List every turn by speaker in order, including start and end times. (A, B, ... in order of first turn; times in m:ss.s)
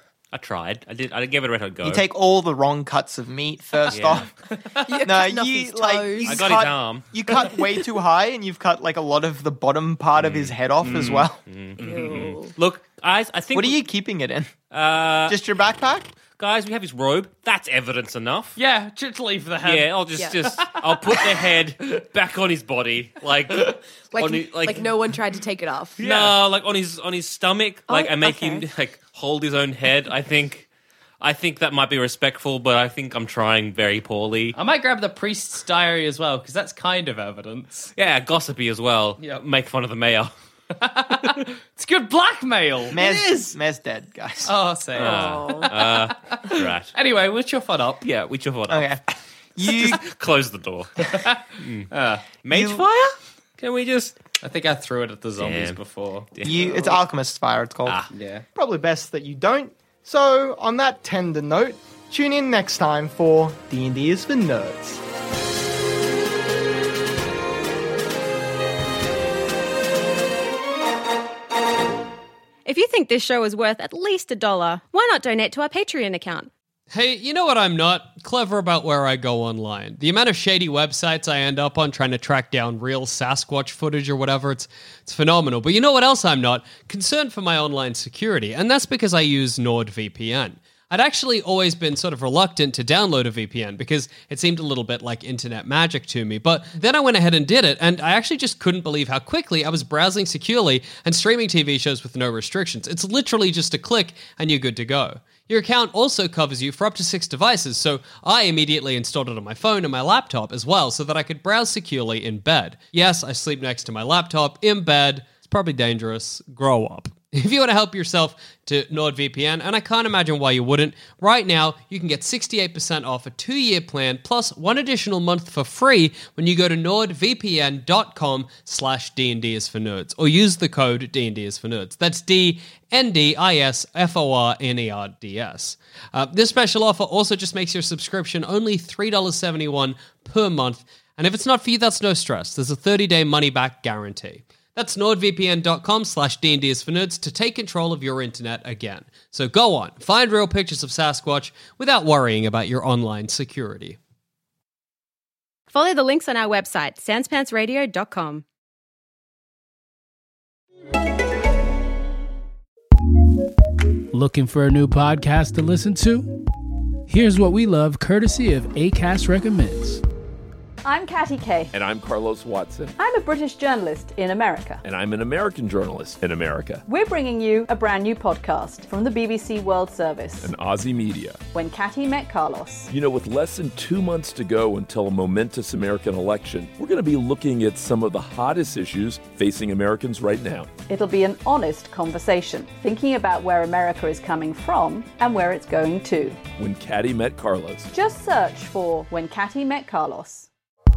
0:00.3-0:02.0 A
0:01.8-0:04.3 B
0:03.9-0:04.3 A
0:04.6-0:04.9 C
0:04.8-0:06.6 D
0:05.0-0:11.4 B
0:06.2-0:07.1 A
0:10.2-0:13.8 A
0:11.8-0:12.5 D
0:13.5-0:14.5 B
0:14.7-0:15.4 A
0:15.3-0:16.1 B
0:16.4-0:18.6 A
0:18.6-0:19.9 C
0:19.6-0:24.9 A
0:20.4-0:22.0 C
0:24.1-0:26.0 D
0:26.0-0:30.7 A
0:26.0-0:26.3 C
0:27.9-0:28.6 D
0:31.2-0:34.6 A
0:34.5-0:37.9 C
0:38.0-0:40.3 A
0:39.2-0:39.4 C
0:40.7-0:43.0 C
0:42.9-0:44.5 B
0:44.4-0:48.0 C
0:45.0-0:46.9 A
0:45.0-0:45.7 D
0:48.0-0:48.9 A
0:48.7-0:49.0 B
0:49.6-0:50.0 B
0:49.6-0:51.9 A
0:51.1-0:52.2 C
0:52.4-0:54.2 A
0:52.5-0:52.8 B
0:54.4-0:56.3 C
0:55.4-0:55.8 A
0:56.3-0:56.9 A
0:56.4-0:58.0 B
0:58.1-0:58.4 C
0:58.5-1:05.0 B
1:12.6-1:16.5 E
1:16.9-2:34.0 F
2:35.7-2:38.4 E
2:44.1-2:46.4 G
2:47.1-2:50.0 G
2:50.8-2:51.7 H
2:51.7-2:52.9 I
2:53.0-2:54.8 H
2:54.8-2:56.8 I
2:56.8-3:00.5 H
3:00.4-3:01.4 I
3:01.5-3:02.9 H
3:02.9-3:10.7 I
3:10.9-3:16.4 H
3:16.6-3:17.9 I
3:17.9-3:20.5 H